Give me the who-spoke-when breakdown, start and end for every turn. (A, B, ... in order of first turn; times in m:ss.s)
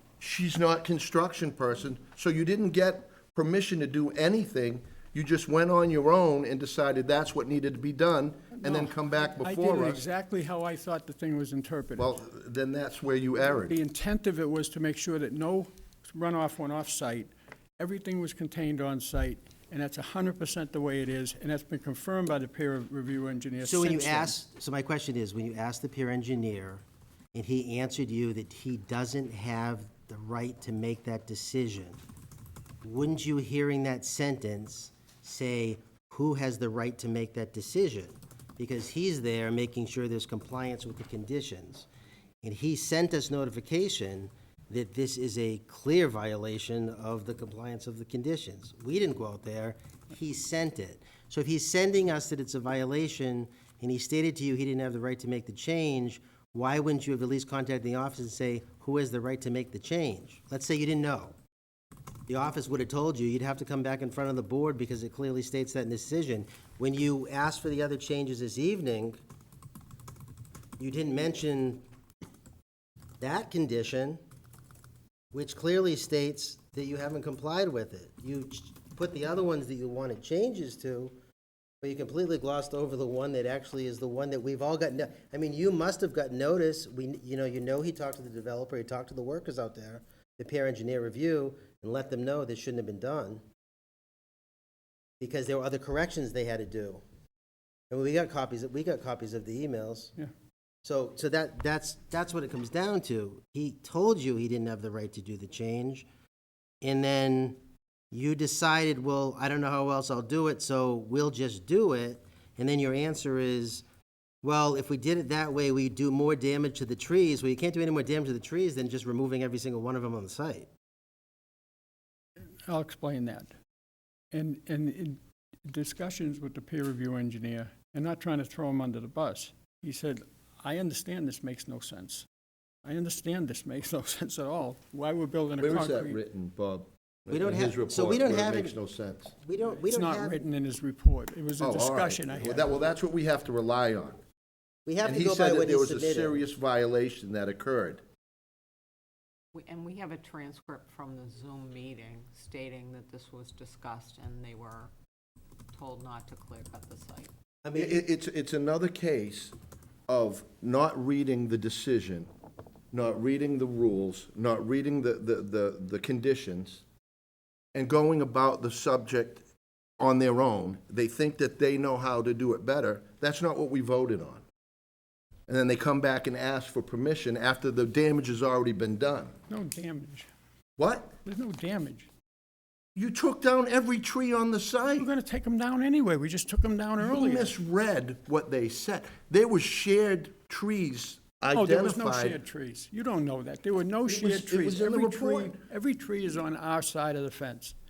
0:00.2-0:10.0 A
0:08.6-0:12.2 B
0:12.0-0:13.8 A
0:13.6-0:24.4 B
0:23.6-0:32.0 C
0:32.8-0:41.9 C
0:42.4-1:01.4 C
1:02.3-1:09.2 C
1:10.8-1:11.8 C
1:13.2-1:14.2 C
1:15.3-1:21.2 C
1:21.8-1:33.4 C
1:35.2-1:37.0 C
1:37.9-1:40.1 C
1:40.8-1:46.1 C
1:46.8-1:47.6 C
1:48.1-1:53.8 C
1:54.4-2:00.7 C
2:02.7-2:03.5 B
2:04.3-2:12.3 B
2:12.8-2:16.2 B
2:15.6-2:19.3 A
2:17.3-2:18.8 C
2:19.4-2:20.4 C
2:19.9-2:22.8 B
2:21.6-2:24.2 A
2:24.9-2:26.4 C
2:25.0-2:28.0 A
2:29.5-2:34.9 D
2:35.7-2:37.3 D
2:37.6-2:38.0 C
2:37.8-2:39.6 A
2:40.1-2:42.3 A
2:42.9-2:46.8 A
2:47.7-2:49.4 A
2:50.0-2:54.4 A
2:55.5-2:59.4 A
2:59.5-3:00.3 B
3:00.8-3:01.1 A
3:01.2-3:02.1 B
3:03.0-3:05.1 A
3:05.0-3:07.5 B
3:07.0-3:12.4 A
3:11.5-3:17.8 B
3:14.1-3:15.6 A